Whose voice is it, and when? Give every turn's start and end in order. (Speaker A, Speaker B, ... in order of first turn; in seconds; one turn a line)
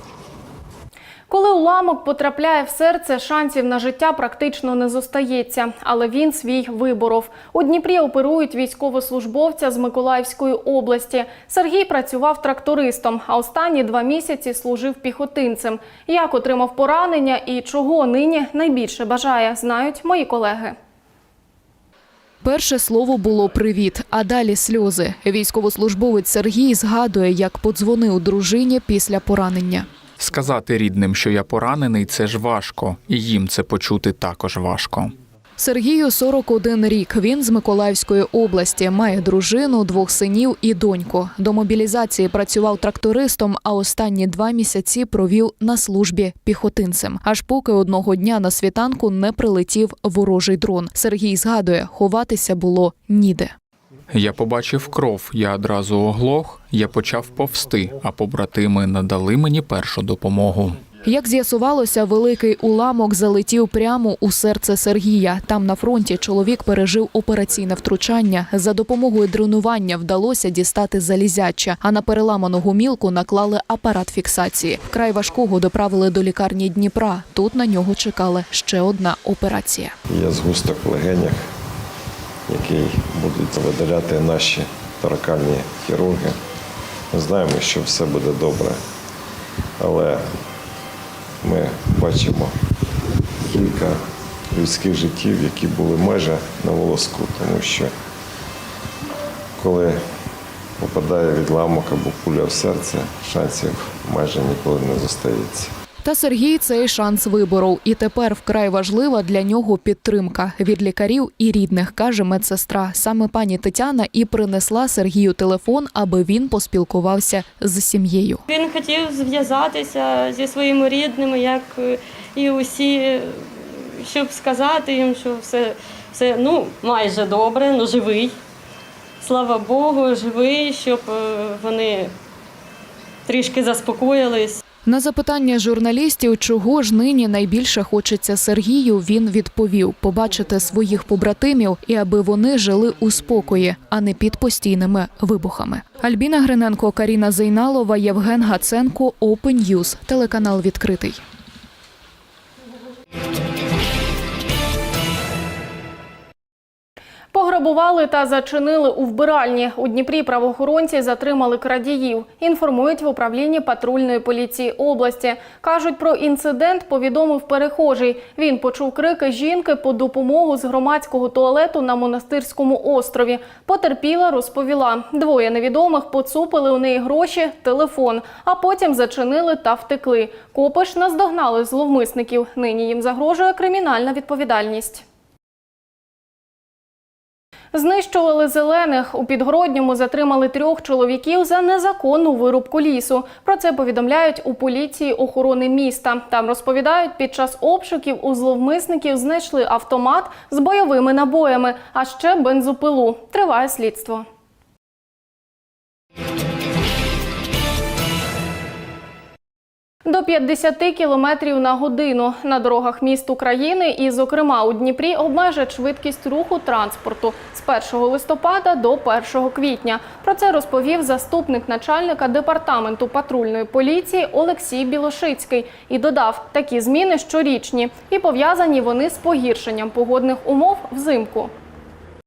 Speaker A: 1.3-20.7
Speaker B: 22.4-29.9
Speaker C: 30.2-35.1
Speaker B: 35.6-53.5
Speaker C: 54.1-60.8
Speaker B: 61.0-79.9
Speaker D: 80.1-81.4
Speaker D: 82.5-86.4
Speaker D: 87.1-88.8
Speaker D: 89.8-90.3
Speaker D: 91.4-92.5
Speaker D: 93.5-94.0
Speaker D: 94.5-97.9
Speaker D: 99.6-100.0
Speaker D: 100.8-105.7
Speaker B: 106.0-118.4
Speaker E: 118.5-123.4
Speaker E: 124.0-128.3
Speaker E: 129.2-132.1
Speaker E: 133.3-134.6
Speaker B: 134.9-151.2
Speaker A: 157.3-185.0
Speaker A: 187.7-204.2
Speaker A: 210.0-231.5